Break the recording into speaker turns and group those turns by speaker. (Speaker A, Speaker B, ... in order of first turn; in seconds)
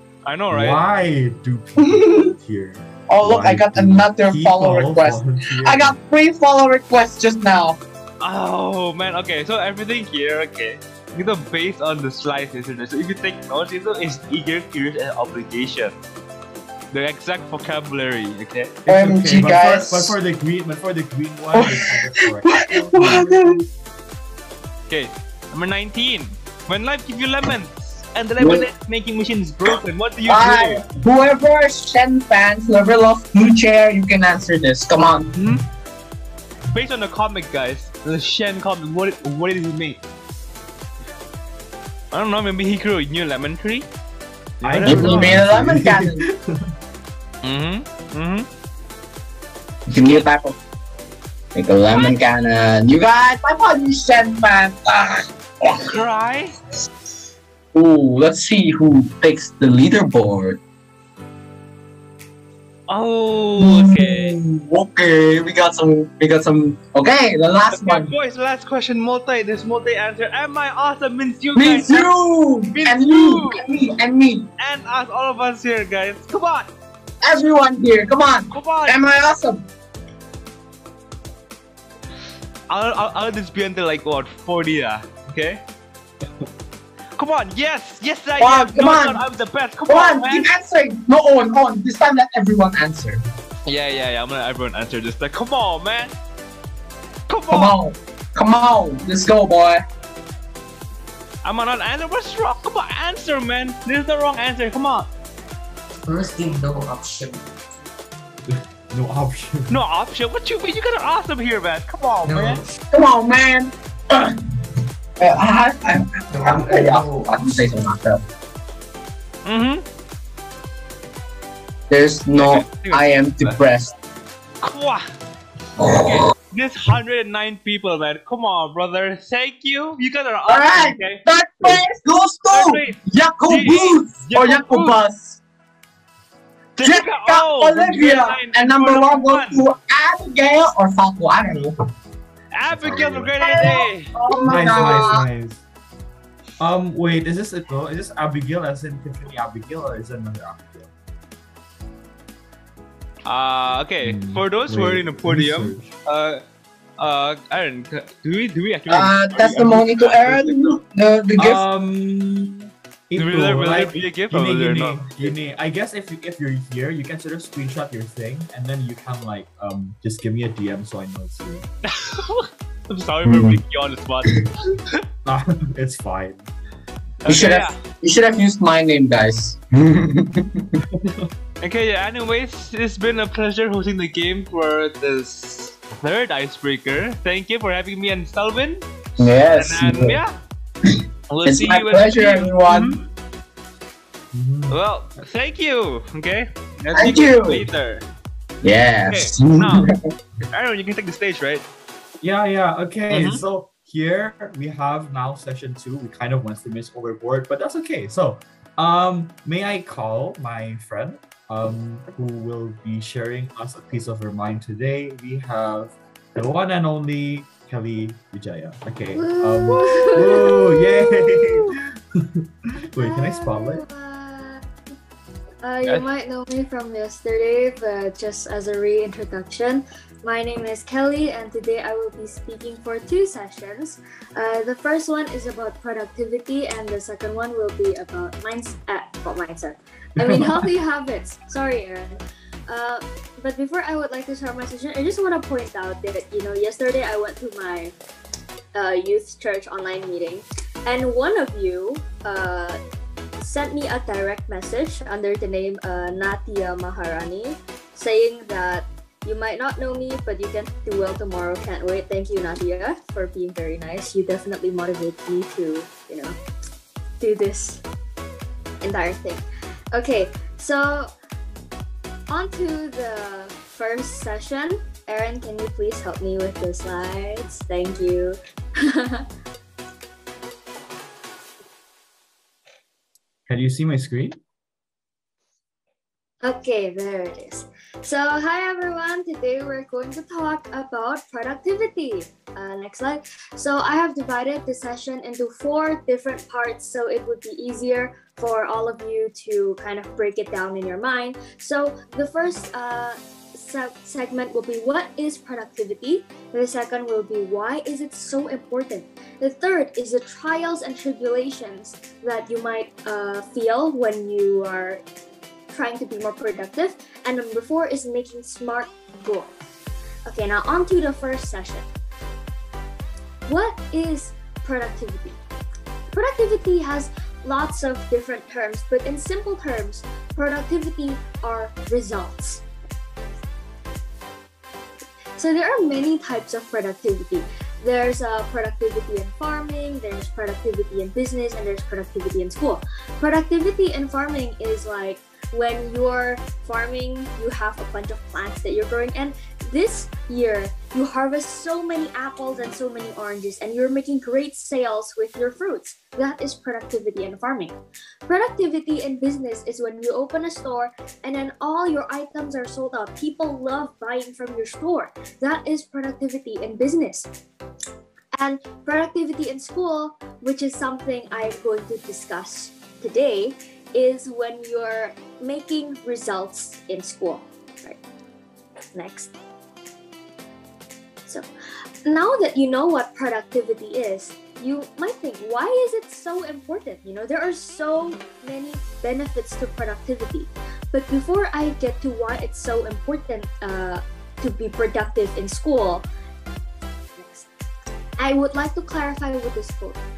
Speaker A: 0.2-0.8, 8.2-16.0, 16.9-18.7, 24.9-30.8, 35.4-35.6, 36.7-40.0, 42.1-43.9, 44.6-45.4, 47.4-48.5, 50.0-50.2, 55.9-56.5, 62.9-64.3, 67.7-72.1, 72.7-73.6, 74.6-76.7, 78.5-79.0, 82.7-85.6, 87.2-90.5, 93.7-96.1, 97.3-97.7, 101.4-105.1, 109.7-112.6, 119.4-119.8, 122.4-123.6, 124.6-125.0, 125.8-131.8, 132.5-134.9, 136.8-139.6, 142.5-144.1, 153.2-156.4, 157.0-160.8, 163.2-165.3, 171.9-175.0, 177.2-177.8, 181.6-188.8, 189.5-190.3, 191.3-193.1, 194.7-198.0, 199.1-199.9, 200.5-201.6, 203.1-203.4
Speaker B: 0.5-6.0, 18.9-23.4, 44.6-46.7, 108.5-109.8, 142.7-143.4, 144.4-145.6, 146.6-150.9, 154.0-155.9, 161.4-171.7, 175.2-176.4, 180.9-181.3, 194.3-194.8, 202.2-223.8, 283.5-284.4
Speaker C: 1.8-2.3, 3.1-7.8, 18.9-20.1, 21.5-23.6, 28.4-28.7, 30.3-35.3, 44.8-46.2, 49.9-50.6, 51.5-55.9, 57.7-60.6, 63.6-68.1, 71.5-74.5, 77.2-79.6, 88.4-89.2, 89.9-93.2, 97.5-99.8, 112.9-114.3, 115.2-118.2, 121.9-123.9, 125.8-126.2, 130.5-135.4, 136.8-141.7, 143.4-145.2, 158.9-161.6, 173.2-173.6, 177.2-180.7, 189.2-190.2, 190.9-192.9, 196.9-197.7, 198.6-199.9
Speaker D: 106.1-107.4, 112.2-112.7, 116.3-117.2
Speaker E: 219.1-221.7, 223.0-224.6, 225.6-247.9, 248.7-252.8, 253.4-266.4, 267.2-267.8, 268.8-271.1, 272.3-279.2, 286.4-315.0, 315.7-319.6, 320.2-321.9, 323.5-325.4, 326.1-333.4, 335.4-367.3, 368.4-378.0, 378.9-379.3, 382.0-396.1, 397.2-397.4, 398.2-400.0